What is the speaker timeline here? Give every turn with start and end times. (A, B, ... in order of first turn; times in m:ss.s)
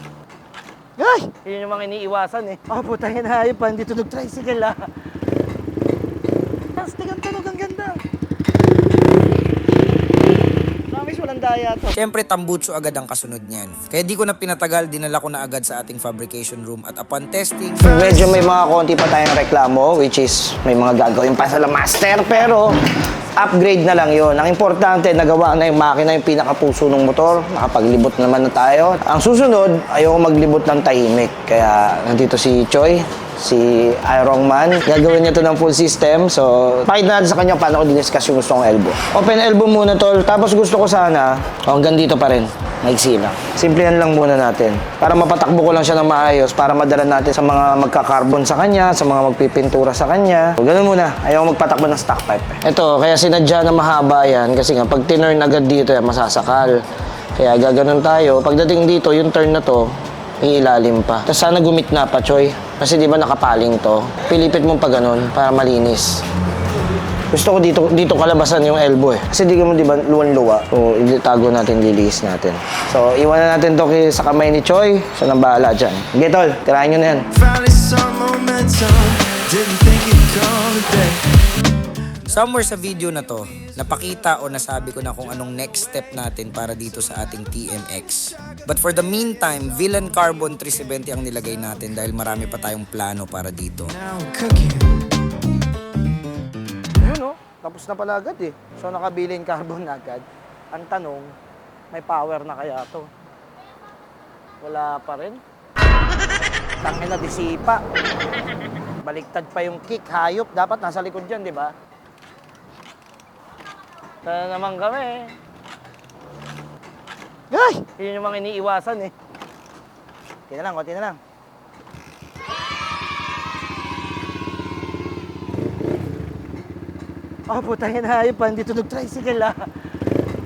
0:01.0-0:04.8 A
0:06.8-0:08.0 A
0:10.9-0:12.0 A
0:12.0-0:18.1 B
0:17.8-0:22.8 A
0:23.3-0:56.8 A
0:57.4-1:06.2 A
1:07.3-1:17.3 A
1:17.3-1:21.4 C
1:22.3-1:34.0 B
1:34.0-1:35.0 C
1:37.0-1:41.3 A
1:41.9-1:43.1 A
1:44.6-1:45.4 A
1:46.8-1:47.8 A
1:49.0-1:51.7 A
1:54.2-1:55.4 A
1:57.5-1:59.1 A
2:00.5-2:01.2 A
2:07.5-2:09.7 A